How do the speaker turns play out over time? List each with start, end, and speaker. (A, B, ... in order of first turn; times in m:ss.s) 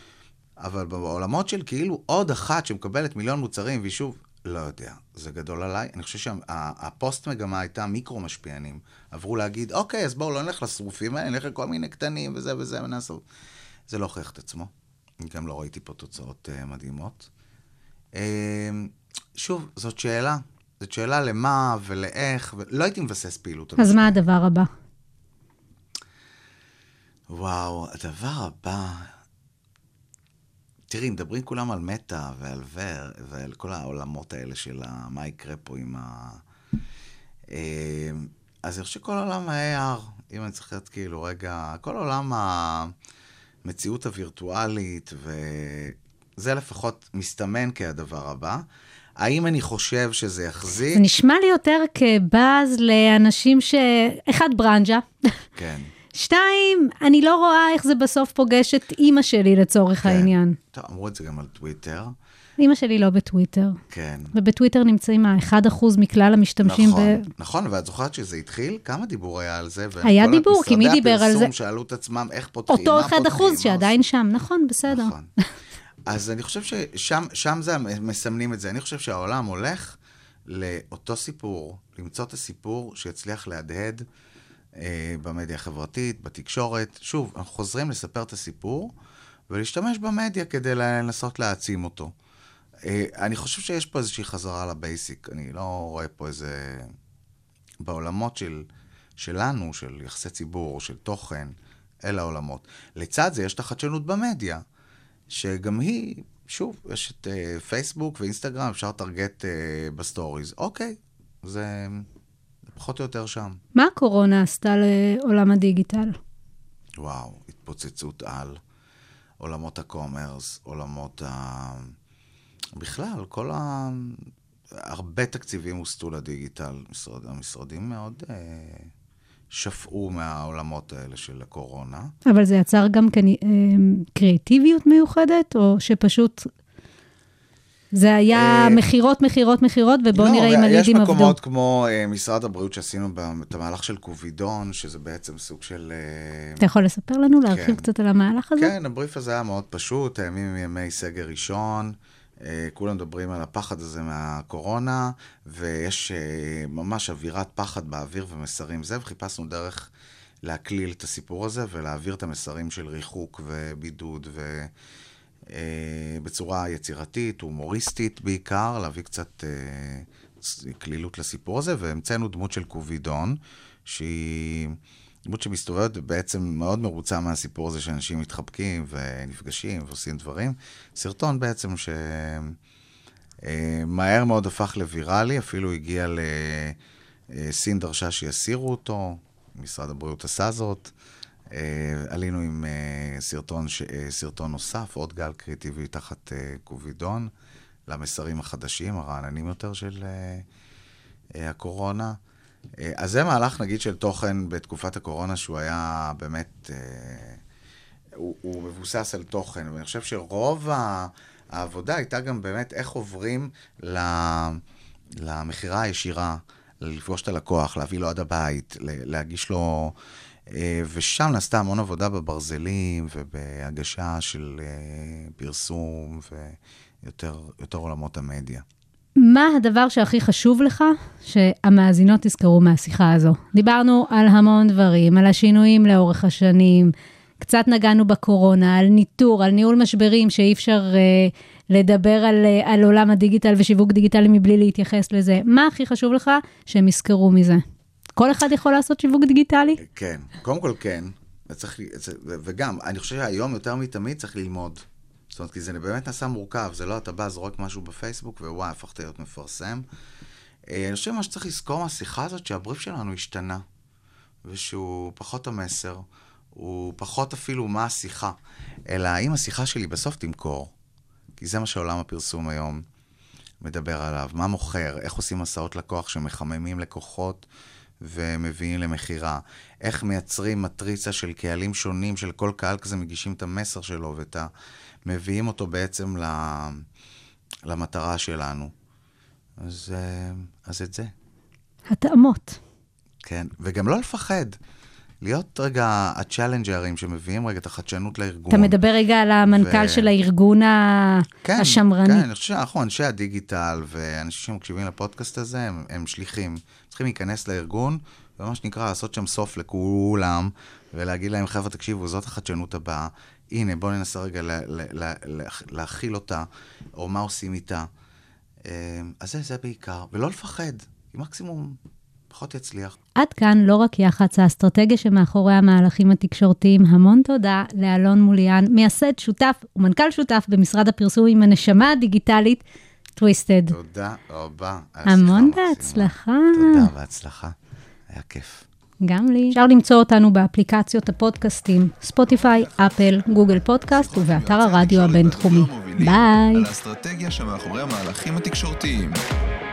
0:00.6-0:13.2 A
0:13.9-0:17.3 A
0:18.1-0:24.2 A
0:23.8-0:24.7 B
0:27.3-0:29.1 A
0:30.9-0:36.4 A
0:37.5-0:42.9 A
0:43.6-0:48.6 A
0:49.2-0:51.1 A
0:50.9-0:55.4 B
0:55.6-0:55.9 A
0:56.1-1:00.6 B
1:00.0-1:02.1 A
1:02.6-1:03.8 B
1:03.9-1:04.3 A
1:04.3-1:07.3 B
1:06.6-1:14.0 A
1:10.0-1:11.5 B
1:12.7-1:15.1 B
1:14.9-1:15.3 A
1:16.0-1:24.0 A
1:24.8-1:28.9 A
1:29.5-1:32.1 A
1:32.8-1:36.9 A
1:37.8-1:44.6 A
1:45.3-1:52.1 A
1:52.7-1:53.6 A
1:53.8-1:56.2 B
1:57.0-1:58.6 A
1:59.4-2:01.9 A
2:02.8-2:08.9 A
2:09.5-2:12.1 A
2:12.2-2:16.5 B
2:17.9-2:21.4 B
2:18.3-2:18.8 A
2:20.1-2:26.6 A
2:26.6-2:28.7 B
2:27.5-2:27.8 A
2:28.6-2:39.9 A
2:40.4-2:44.7 A
2:45.5-3:02.6 A
3:03.4-3:06.8 A
3:07.3-3:10.9 A
3:11.5-3:17.3 A
3:17.9-3:20.4 A
3:21.3-3:22.2 A
3:22.8-3:27.4 A
3:28.2-3:34.6 A
3:35.2-3:39.9 A
3:40.5-3:48.6 A
3:49.2-4:07.6 B
4:08.2-4:09.8 B
4:09.8-4:19.8 A
4:20.7-4:23.6 A
4:24.4-4:28.4 A
4:28.9-4:30.7 A
4:31.4-4:32.8 A
4:33.6-4:37.5 A
4:38.0-4:44.5 A
4:45.0-4:46.8 A
4:47.6-4:48.7 A
4:49.6-4:51.1 A
4:51.9-4:52.6 B
4:53.2-4:54.6 A
4:55.2-4:58.8 A
4:58.5-5:02.2 B
4:59.4-5:00.1 A
5:01.4-5:17.9 A
5:18.6-5:21.8 A
5:22.3-5:23.0 A
5:23.2-5:32.6 B
5:33.2-5:33.7 B
5:33.7-5:37.5 A
5:35.0-5:36.9 B
5:38.1-5:38.6 A
5:39.0-5:46.7 B
5:44.1-5:49.2 C